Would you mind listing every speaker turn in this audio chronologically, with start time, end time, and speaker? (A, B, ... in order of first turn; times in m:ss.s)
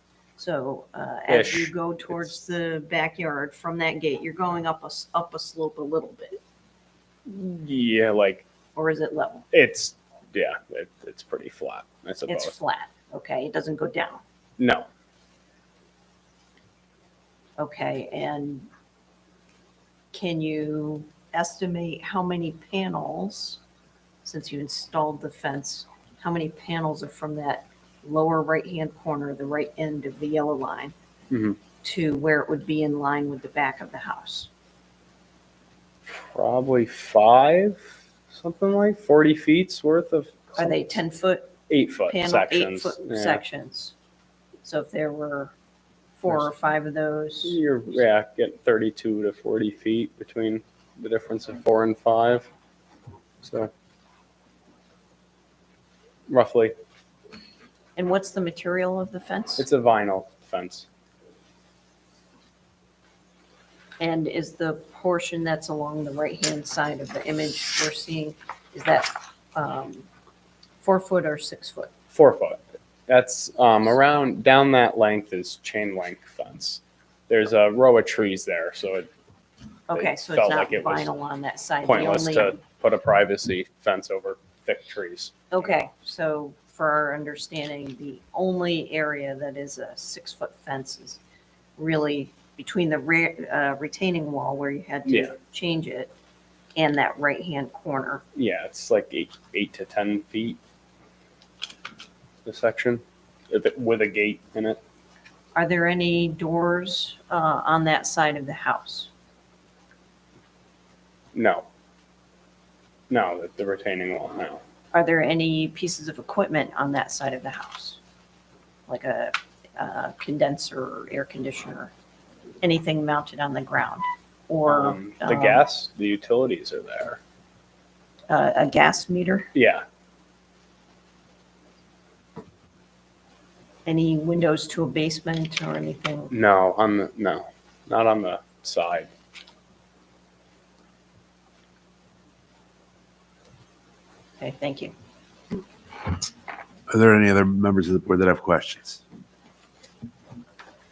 0:00.4-0:06.4 A
0:01.3-0:02.3 B
0:07.2-0:08.5 B
0:08.8-0:09.5 A
0:09.5-0:12.6 B
0:12.3-0:14.2 A
0:14.6-0:14.9 B
0:17.6-0:18.7 A
0:20.1-0:23.6 A
0:24.2-0:30.9 A
0:31.3-0:31.6 B
0:31.8-0:34.5 A
0:36.1-0:40.9 B
0:40.6-0:43.9 A
0:41.7-0:43.4 B
0:44.6-0:45.5 A
0:46.2-0:47.6 A
0:47.4-0:52.5 B
0:53.4-0:53.7 B
0:56.3-0:56.7 B
0:58.0-0:59.7 A
0:59.6-1:00.9 B
1:04.0-1:10.1 A
1:10.8-1:11.9 A
1:12.1-1:19.1 B
1:19.9-1:22.6 A
1:19.9-1:21.1 B
1:21.8-1:25.3 B
1:25.5-1:31.2 A
1:31.8-1:36.1 A
1:35.1-1:35.3 B
1:36.8-1:38.2 A
1:38.3-1:40.6 B
1:42.4-1:44.8 B
1:45.6-1:49.1 A
1:51.3-1:51.7 B
1:53.1-1:54.6 B
1:54.9-1:58.0 A
1:58.9-2:01.9 A
2:02.6-2:05.6 A
2:04.7-2:07.2 B
2:08.3-2:09.5 A
2:09.5-2:09.8 B
2:13.9-2:16.3 A
2:16.3-2:19.1 B
2:24.4-2:24.9 A
2:26.9-2:29.0 C